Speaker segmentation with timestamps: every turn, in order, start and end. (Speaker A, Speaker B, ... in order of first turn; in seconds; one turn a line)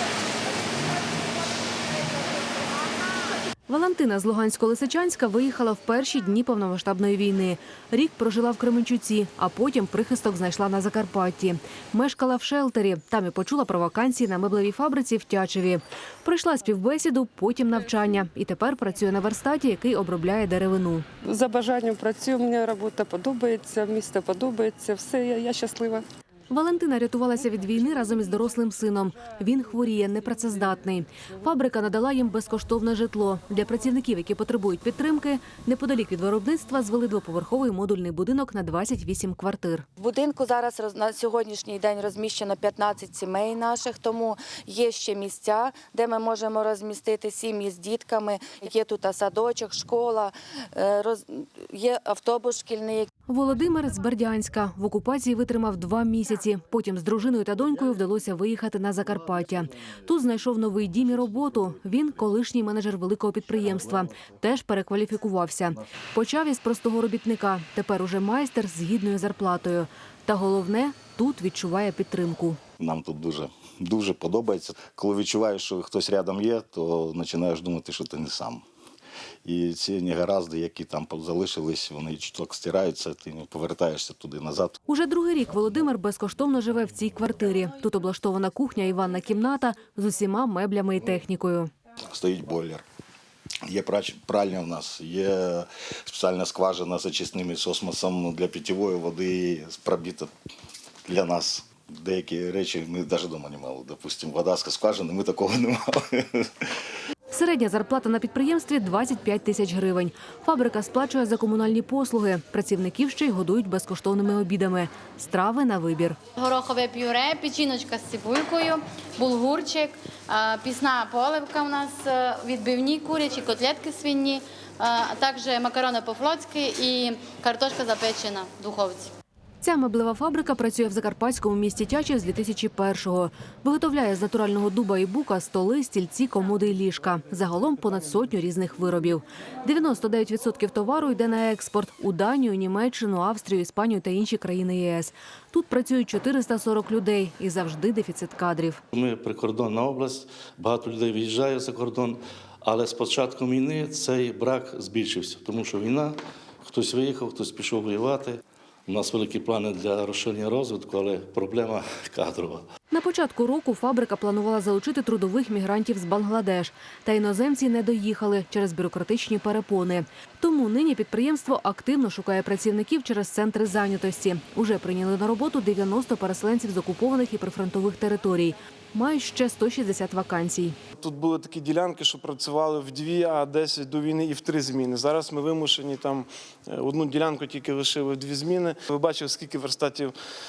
Speaker A: 3.7-21.1
Speaker B: 21.2-26.0
Speaker A: 26.5-39.9
Speaker C: 40.0-53.1
Speaker A: 53.3-72.6
Speaker D: 72.8-78.6
Speaker D: 79.4-84.8
Speaker A: 84.9-91.7
Speaker D: 92.1-92.8
Speaker D: 93.7-100.3
Speaker D: 101.0-106.6
Speaker A: 107.3-116.2
Speaker E: 116.4-129.1
Speaker A: 129.6-148.8
Speaker F: 148.9-162.6
Speaker A: 162.9-180.8
Speaker G: 181.0-190.1